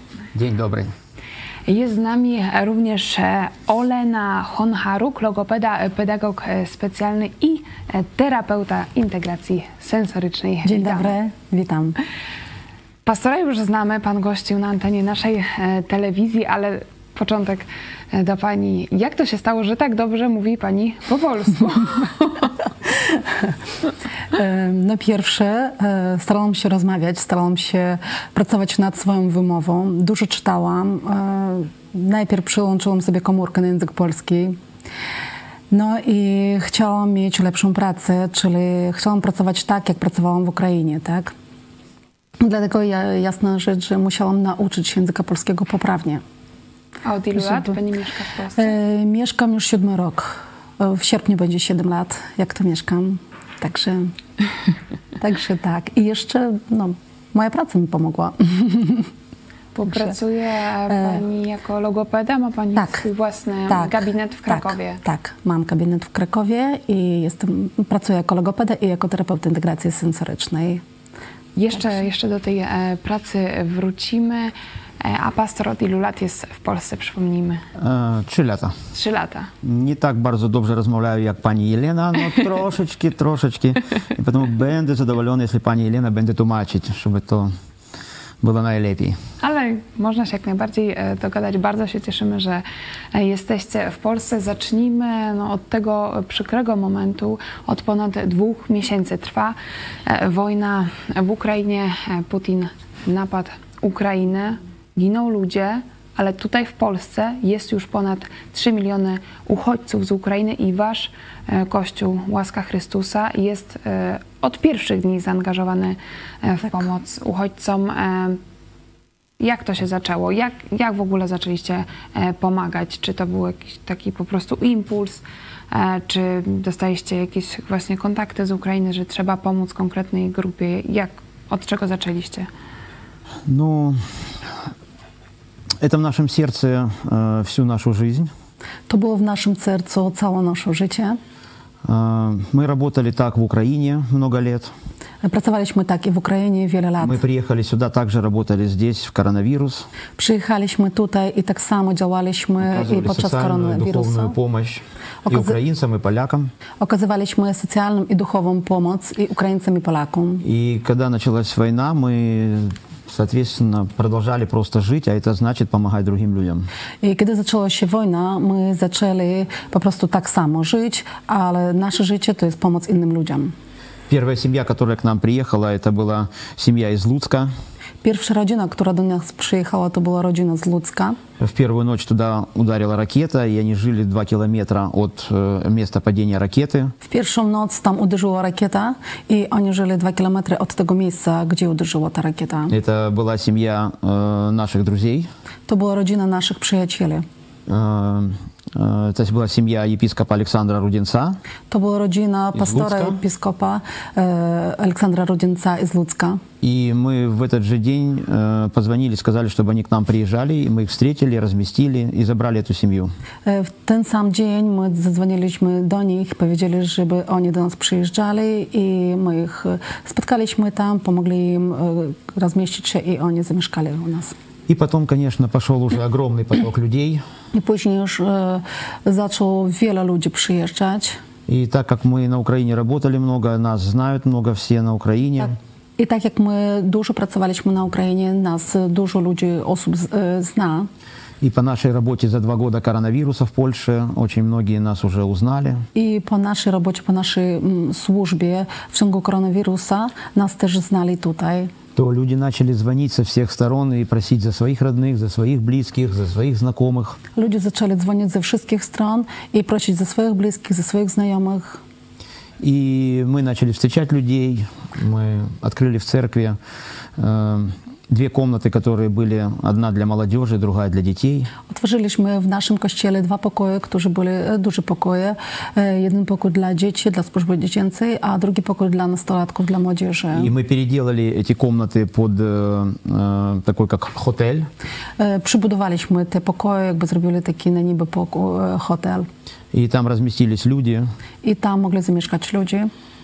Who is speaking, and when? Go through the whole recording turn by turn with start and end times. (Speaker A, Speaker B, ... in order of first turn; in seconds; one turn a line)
Speaker A: 0.3-0.9
Speaker B: 1.7-11.1
Speaker C: 10.6-11.9
Speaker B: 13.1-22.5
Speaker C: 24.3-34.6
Speaker C: 35.7-41.3
Speaker C: 42.4-46.2
Speaker B: 47.0-48.7
Speaker C: 47.3-47.7
Speaker C: 48.6-54.1
Speaker C: 55.2-59.1
Speaker B: 59.7-65.0
Speaker C: 59.9-60.1
Speaker C: 60.9-61.2
Speaker C: 62.8-63.0
Speaker C: 63.7-70.8
Speaker B: 71.5-77.6
Speaker A: 77.8-78.7
Speaker B: 78.9-79.5
Speaker A: 79.6-87.5
Speaker A: 88.4-89.2
Speaker B: 89.4-118.4
Speaker B: 119.4-132.5
Speaker A: 133.5-134.0
Speaker A: 135.8-138.3
Speaker C: 138.9-141.2
Speaker A: 141.8-144.7
Speaker C: 145.2-147.2
Speaker A: 147.0-149.8
Speaker C: 150.2-154.3
Speaker A: 152.6-156.5
Speaker C: 155.2-155.6
Speaker C: 156.8-160.4
Speaker A: 160.4-166.7
Speaker C: 167.0-173.5
Speaker A: 174.1-177.5
Speaker C: 178.0-181.2
Speaker A: 181.4-186.9
Speaker C: 187.0-192.7
Speaker A: 192.7-195.3
Speaker C: 195.7-197.2
Speaker A: 197.7-201.4
Speaker C: 201.7-206.4
Speaker A: 202.5-203.2
Speaker A: 206.6-213.1
Speaker C: 213.4-224.3
Speaker A: 224.7-227.2
Speaker C: 227.5-231.2
Speaker A: 231.5-235.5
Speaker C: 236.0-240.9
Speaker A: 241.4-245.8
Speaker C: 245.9-251.7
Speaker A: 251.9-257.2
Speaker C: 257.3-261.8
Speaker A: 262.6-266.6
Speaker A: 267.2-271.5
Speaker C: 271.7-280.5
Speaker A: 280.3-284.7
Speaker C: 285.2-289.3
Speaker A: 289.7-291.1
Speaker C: 291.4-292.9